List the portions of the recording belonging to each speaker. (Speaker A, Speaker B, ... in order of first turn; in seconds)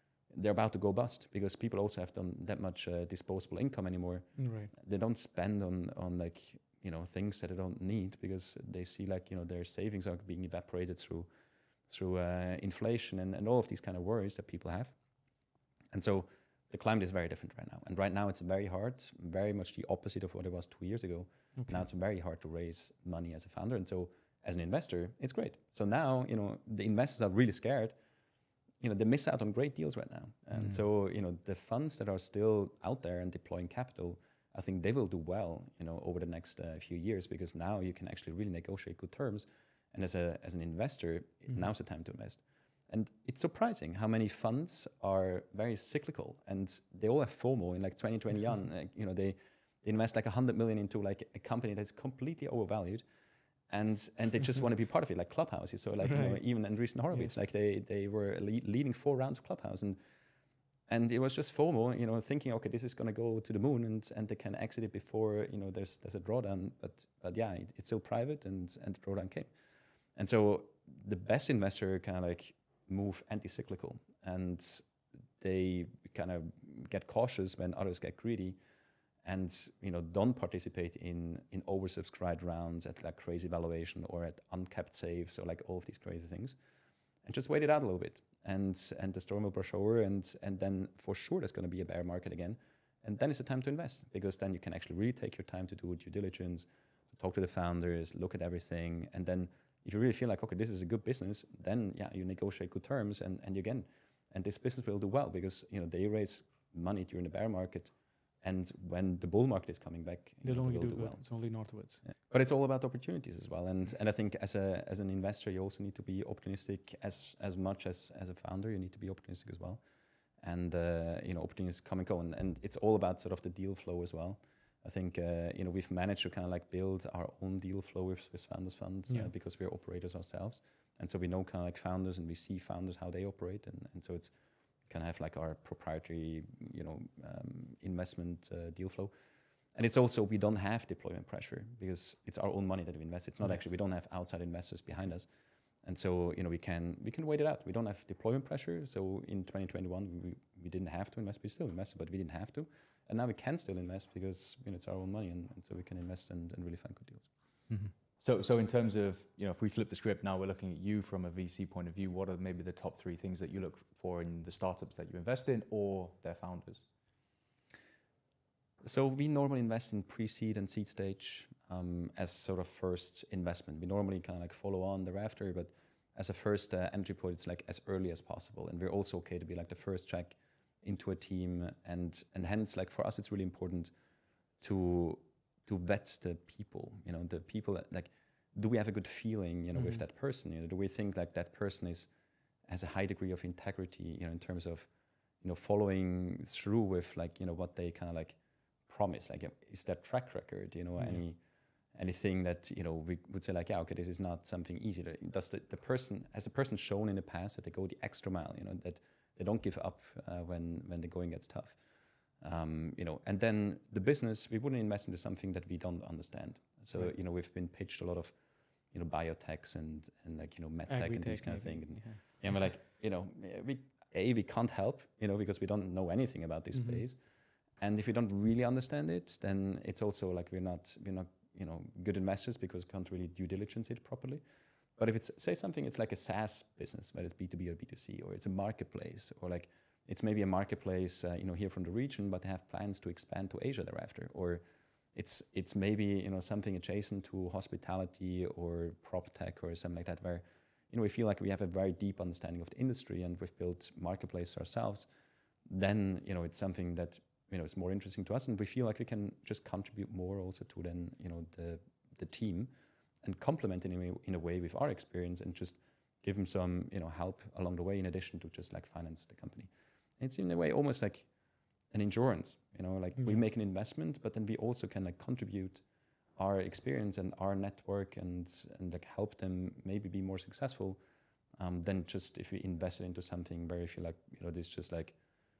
Speaker A: 0.3-11.3, 11.9-14.9, 15.9-27.9, 28.8-53.0, 53.7-60.0, 60.9-69.5, 70.2-74.8, 75.4-78.6, 79.2-86.5, 87.2-111.3, 112.0-119.8, 120.4-134.3, 134.9-139.1, 139.7-145.3, 145.8-157.3, 168.8-183.9, 184.6-192.1, 192.7-194.9, 195.4-198.4, 198.9-201.4, 201.9-211.8, 212.4-218.3, 218.9-227.2, 227.8-234.4, 235.0-244.6, 245.1-255.1, 255.7-262.7, 263.2-271.3, 271.9-275.8, 276.4-281.0, 281.6-285.2
Speaker B: 4.3-4.7, 56.0-56.4, 110.4-112.0, 220.9-222.2, 226.7-227.0
Speaker C: 157.7-166.9